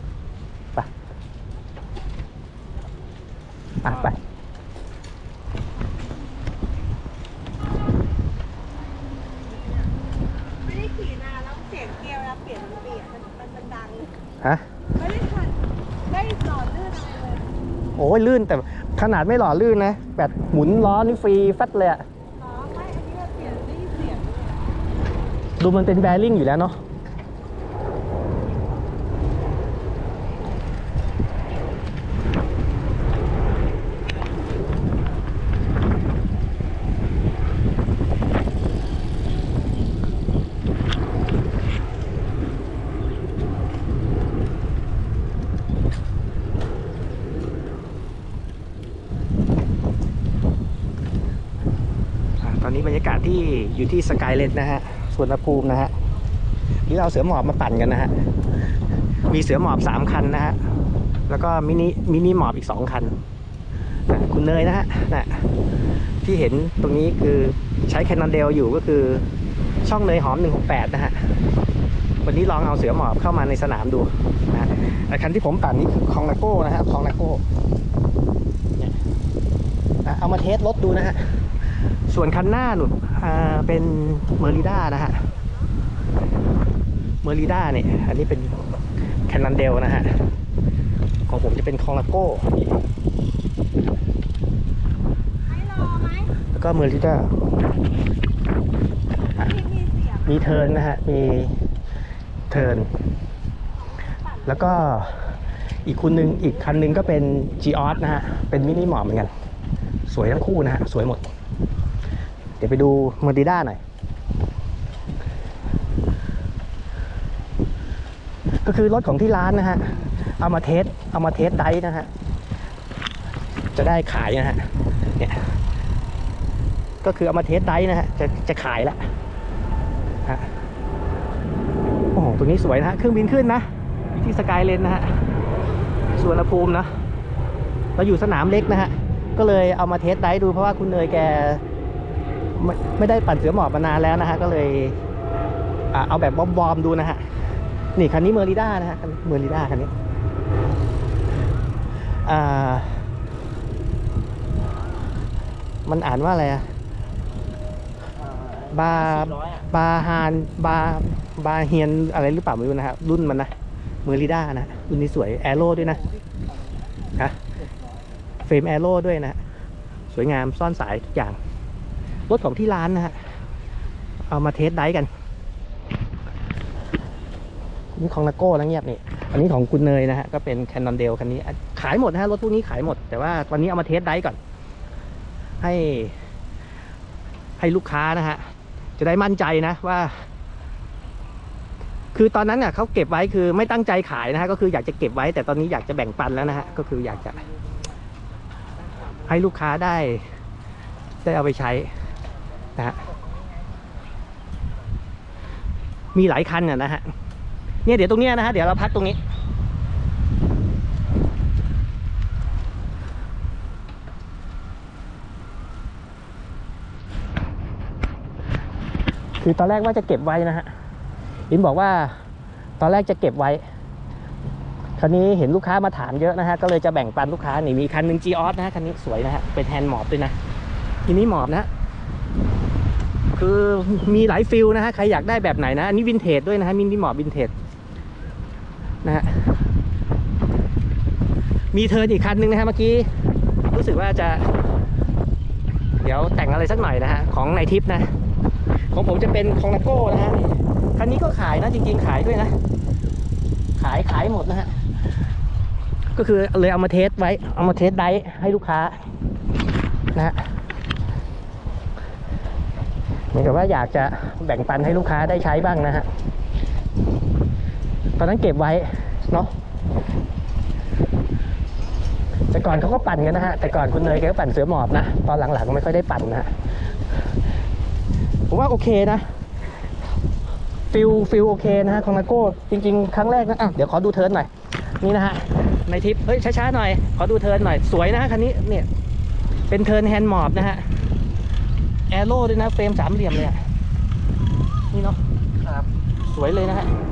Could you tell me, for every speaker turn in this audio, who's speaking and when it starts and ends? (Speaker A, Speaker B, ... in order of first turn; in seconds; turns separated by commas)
Speaker A: 3.8-4.2, Speaker B: 10.6-14.2, Speaker B: 14.9-17.5, Speaker A: 18.0-22.0, Speaker B: 22.4-24.6, Speaker A: 25.6-26.8, Speaker A: 52.4-55.9, Speaker A: 56.9-58.1, Speaker A: 59.3-60.7, Speaker A: 61.3-63.2, Speaker A: 64.1-65.4, Speaker A: 66.2-69.3, Speaker A: 69.8-71.2, Speaker A: 72.2-77.4, Speaker A: 80.0-81.3, Speaker A: 82.1-85.3, Speaker A: 87.2-88.6, Speaker A: 89.3-90.2, Speaker A: 91.3-92.5, Speaker B: 95.5-96.4, Speaker A: 96.5-97.3, Speaker B: 99.4-100.4, Speaker A: 100.2-101.6, Speaker A: 102.5-102.9, Speaker B: 103.9-104.8, Speaker A: 104.5-109.3, Speaker A: 110.1-111.2, Speaker A: 112.6-113.8, Speaker A: 118.7-122.1, Speaker A: 123.7-125.5, Speaker A: 127.0-129.0, Speaker A: 132.1-135.1, Speaker A: 136.1-136.9, Speaker A: 138.0-141.6, Speaker A: 142.6-145.0, Speaker A: 145.9-147.2, Speaker A: 148.0-149.9, Speaker A: 152.2-153.1, Speaker A: 155.9-156.7, Speaker A: 158.6-163.5, Speaker A: 164.1-166.1, Speaker A: 168.4-169.4, Speaker A: 170.1-171.4, Speaker A: 172.3-173.2, Speaker A: 174.3-175.1, Speaker A: 177.9-184.4, Speaker A: 185.6-186.2, Speaker A: 187.6-190.2, Speaker A: 192.1-197.5, Speaker A: 199.2-200.2, Speaker A: 201.2-201.9, Speaker A: 202.8-203.1, Speaker A: 206.2-207.1, Speaker A: 207.8-209.2, Speaker A: 219.4-220.7, Speaker A: 221.5-222.2, Speaker A: 222.8-223.6, Speaker A: 225.0-230.3, Speaker A: 231.1-231.7, Speaker A: 233.3-237.5, Speaker A: 239.0-239.5, Speaker A: 241.7-243.1, Speaker A: 243.7-244.5, Speaker A: 246.0-248.1, Speaker A: 248.9-252.5, Speaker A: 253.8-254.7, Speaker A: 256.1-259.0, Speaker A: 260.1-260.4, Speaker A: 263.3-266.1, Speaker A: 268.2-269.5, Speaker A: 272.5-276.5, Speaker A: 278.5-279.3, Speaker A: 280.9-288.9, Speaker A: 289.7-290.9, Speaker A: 292.1-293.6, Speaker A: 294.9-295.2, Speaker A: 296.3-296.9